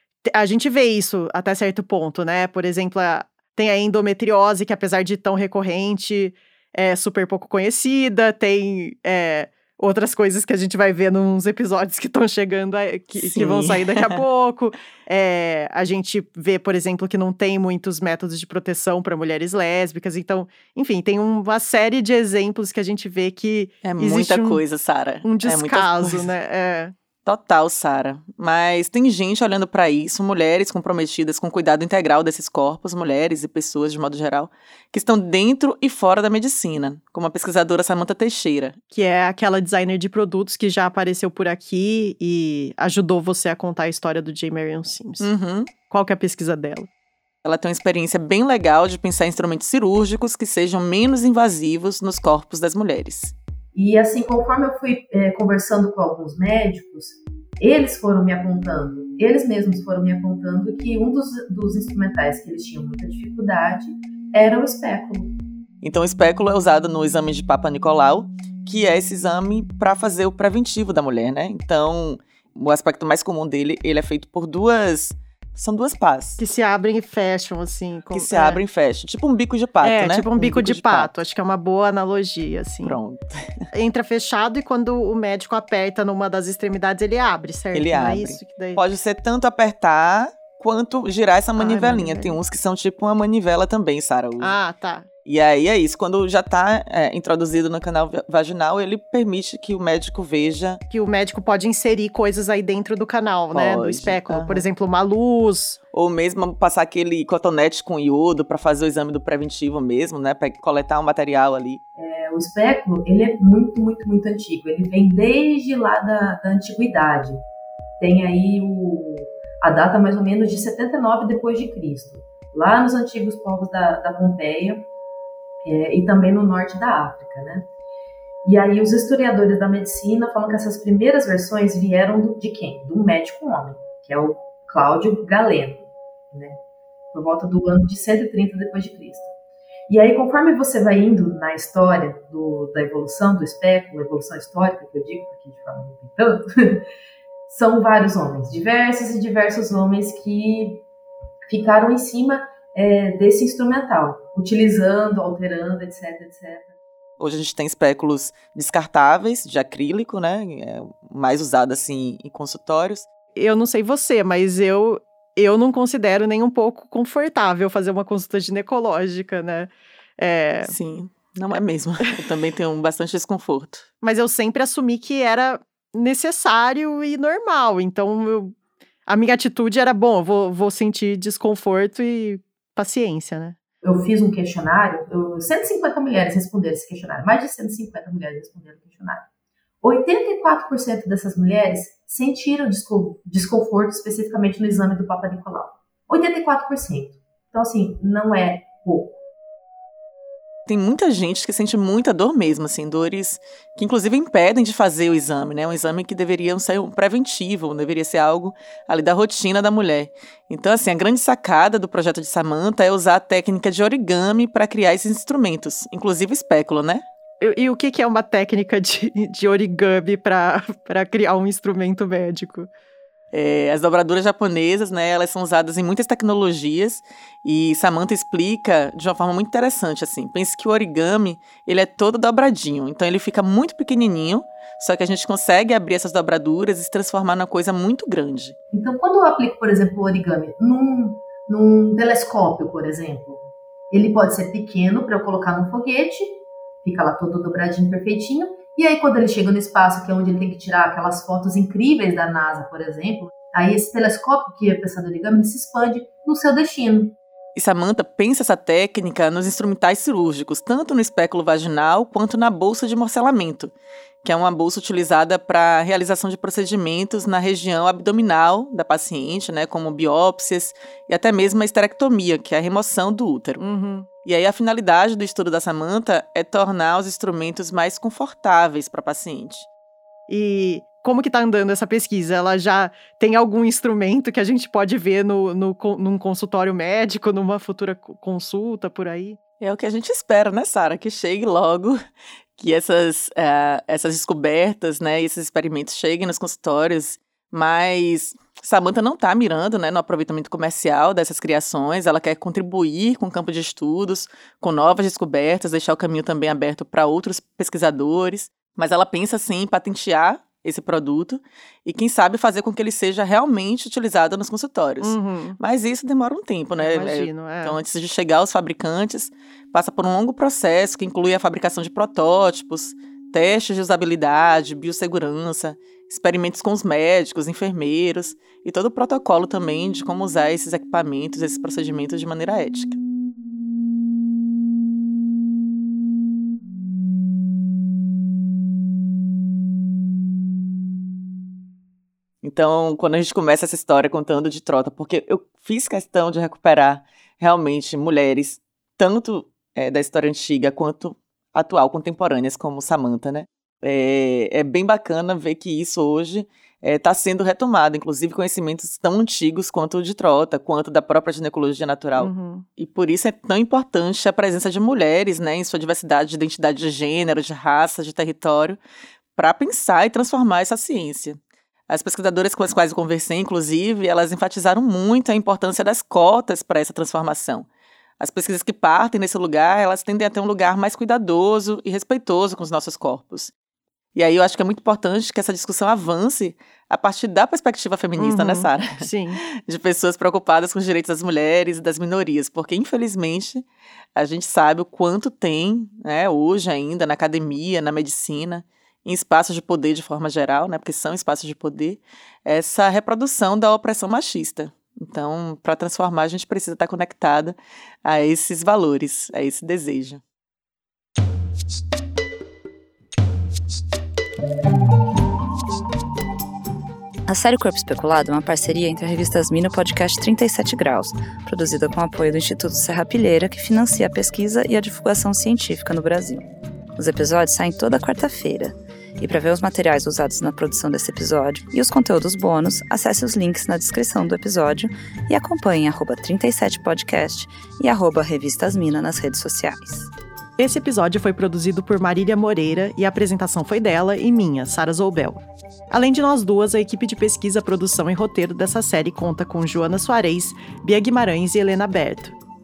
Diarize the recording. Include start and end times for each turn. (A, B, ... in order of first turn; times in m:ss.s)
0:00.2-0:24.6 A
0:13.1-0:14.2 B
0:23.8-0:26.3 B
0:25.2-0:26.9 A
0:27.2-0:38.8 B
0:38.9-0:45.3 A
0:45.2-0:45.7 B
0:45.9-0:46.9 A
0:47.4-0:53.3 B
0:53.7-1:05.3 C
1:05.8-1:16.4 B
1:16.4-1:18.6 A
1:18.1-1:21.1 B
1:19.8-1:23.0 A
1:22.8-1:23.4 B
1:23.7-1:28.8 A
1:27.7-1:34.6 B
1:31.6-1:32.4 A
1:34.4-1:35.1 A
1:35.2-1:40.8 B
1:40.9-1:45.8 A
1:43.5-1:44.6 B
1:45.9-1:51.8 B
1:52.0-1:57.4 C
1:58.0-2:04.9 C
2:05.6-2:07.7 C
2:08.4-2:16.6 C
2:17.1-2:19.3 C
2:19.9-2:26.8 C
2:27.5-2:30.8 C
2:31.4-2:36.7 C
2:37.2-2:43.1 B
2:43.4-2:50.7 A
2:50.6-2:53.9 B
2:54.0-3:03.6 A
3:03.8-3:09.3 C
3:09.8-3:19.2 C
3:20.7-3:37.0 B
3:37.4-3:42.7 A
3:43.3-3:58.6 B
3:58.7-4:17.2 C
4:17.6-4:33.6 B
4:33.6-4:34.1 A
4:34.2-4:39.7 B
4:40.3-4:49.4 A
4:49.6-4:52.0 B
4:52.6-5:33.0 B
5:15.0-5:15.6 A
5:16.8-5:17.8 A
5:42.4-6:08.8 B
6:02.2-6:02.6 A
6:09.4-6:17.7 B
6:18.2-6:23.5 B
6:24.1-6:29.1 B
6:28.2-6:29.4 A
6:29.6-6:33.6 B
6:34.2-6:50.2 B
6:57.3-7:20.1 D
7:20.6-7:32.4 A